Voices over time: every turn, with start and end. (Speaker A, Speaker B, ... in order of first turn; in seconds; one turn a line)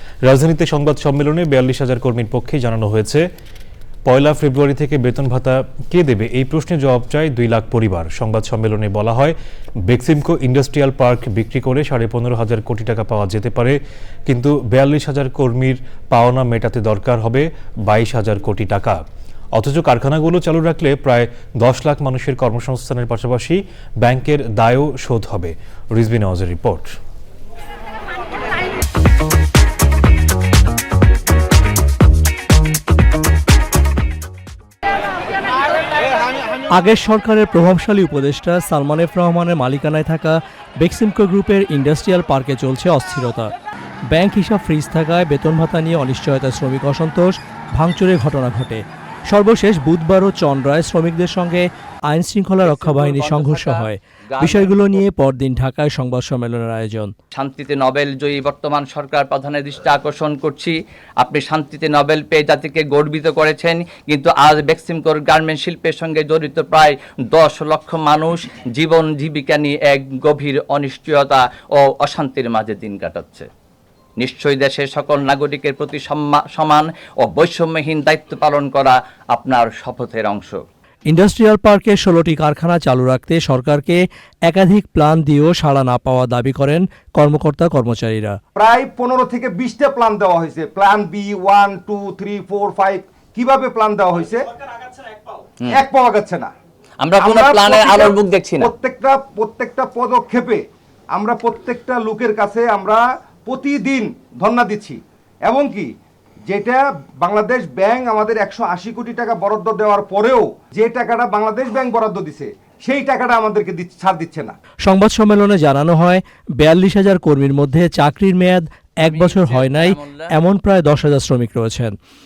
Speaker A: 0.2-3.2
Speaker A: 4.1-9.3
Speaker A: 9.9-19.0
Speaker A: 19.6-26.9
Speaker B: 36.7-43.5
Speaker B: 44.1-57.1
Speaker C: 52.6-55.0
Speaker C: 57.3-73.5
Speaker C: 74.2-80.6
Speaker B: 81.1-88.4
Speaker D: 88.5-94.5
Speaker D: 95.7-96.5
Speaker C: 97.0-98.7
Speaker D: 97.2-105.9
Speaker D: 106.5-114.5
Speaker B: 114.8-122.0
Speaker C: 119.0-120.3